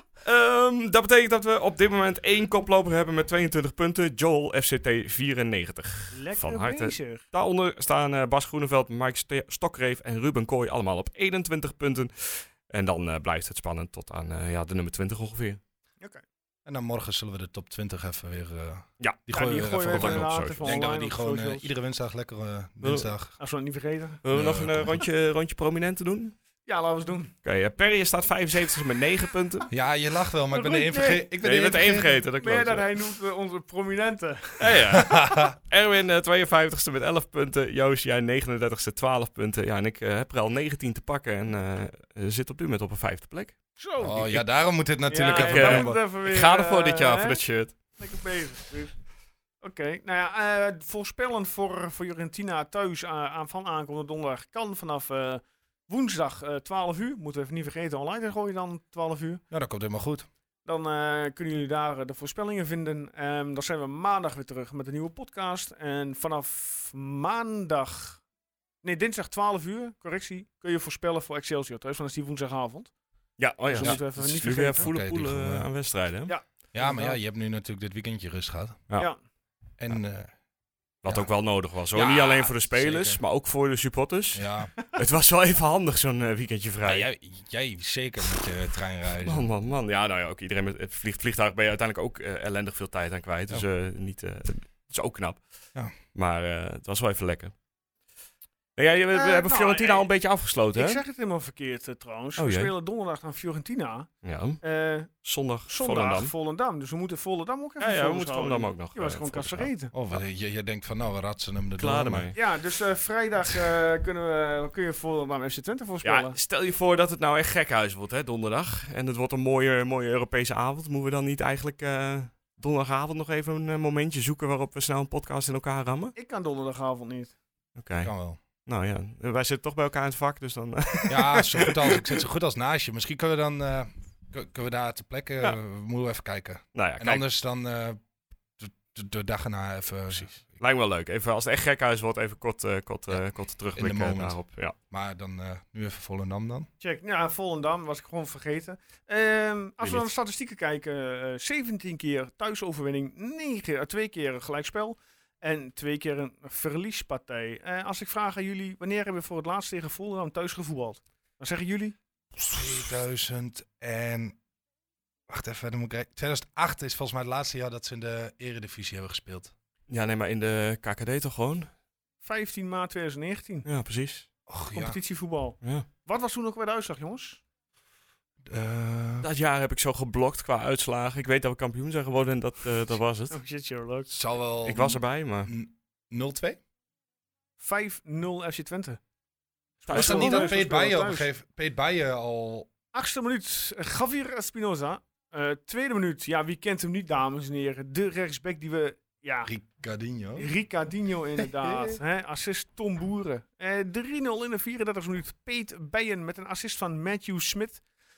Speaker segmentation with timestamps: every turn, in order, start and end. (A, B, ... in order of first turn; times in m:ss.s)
0:00.2-0:15.6 A
0:06.1-0:07.2 B
0:16.7-0:23.3 C
0:19.0-0:20.8 A
0:19.3-0:21.7 B
0:22.8-0:23.1 A
0:23.4-0:24.2 B
0:24.2-0:26.4 A
0:24.3-0:25.0 C
0:26.6-0:27.3 B
0:27.4-0:29.7 A
0:29.7-0:32.2 C
0:30.5-0:31.3 B
0:31.4-0:32.9 A
0:32.4-0:35.1 B
0:34.6-0:43.6 A
0:34.9-0:35.6 C
0:43.8-0:44.4 B
0:44.0-0:46.0 C
0:45.1-0:47.4 B
0:45.3-0:47.8 A
0:48.0-0:49.0 B
0:49.6-0:59.4 B
0:59.5-1:00.3 C
1:00.6-1:08.2 B
1:08.8-1:12.9 B
1:13.4-1:16.3 A
1:13.7-1:14.9 B
1:13.8-1:14.2 C
1:14.8-1:15.7 C
1:16.3-1:17.2 B
1:16.7-1:18.8 C
1:19.8-1:20.3 C
1:21.0-1:27.1 A
1:21.1-1:21.3 C
1:21.9-1:23.2 C
1:24.3-1:24.7 C
1:26.8-1:29.5 C
1:29.2-1:35.4 A
1:36.1-1:37.5 A
1:38.8-1:41.0 A
1:39.1-1:40.1 B
1:40.8-1:44.1 B
1:42.4-1:42.7 A
1:44.2-1:44.6 A
1:44.6-1:45.1 B
1:45.2-1:46.3 A
1:45.7-1:49.9 B
1:47.8-1:49.7 A
1:49.9-1:52.3 C
1:51.8-1:52.4 A
1:52.3-1:56.4 B
1:56.0-2:06.1 A
2:06.2-2:07.4 B
2:07.8-2:08.1 A
2:08.0-2:08.4 C
2:08.7-2:12.2 A
2:11.1-2:18.0 C
2:16.8-2:17.2 A
2:18.6-2:20.6 C
2:20.1-2:24.8 A
2:23.8-2:24.4 C
2:24.9-2:26.7 C
2:26.8-2:42.0 B
2:29.8-2:30.1 A
2:42.5-2:44.4 C
2:45.3-2:49.5 C
2:49.9-2:51.7 A
2:52.2-2:53.7 B
2:53.6-2:54.3 A
2:54.5-2:55.0 C
2:54.7-2:57.4 B
2:55.6-2:55.9 A
2:58.5-2:59.3 C
2:59.2-3:03.4 A
3:03.3-3:04.1 B
3:04.1-3:06.6 C
3:04.6-3:05.5 A
3:07.6-3:09.0 B
3:09.8-3:11.3 B
3:09.9-3:10.6 A
3:09.9-3:12.7 C
3:12.9-3:19.5 B
3:19.5-3:20.5 C
3:20.4-3:27.8 B
3:21.4-3:22.0 C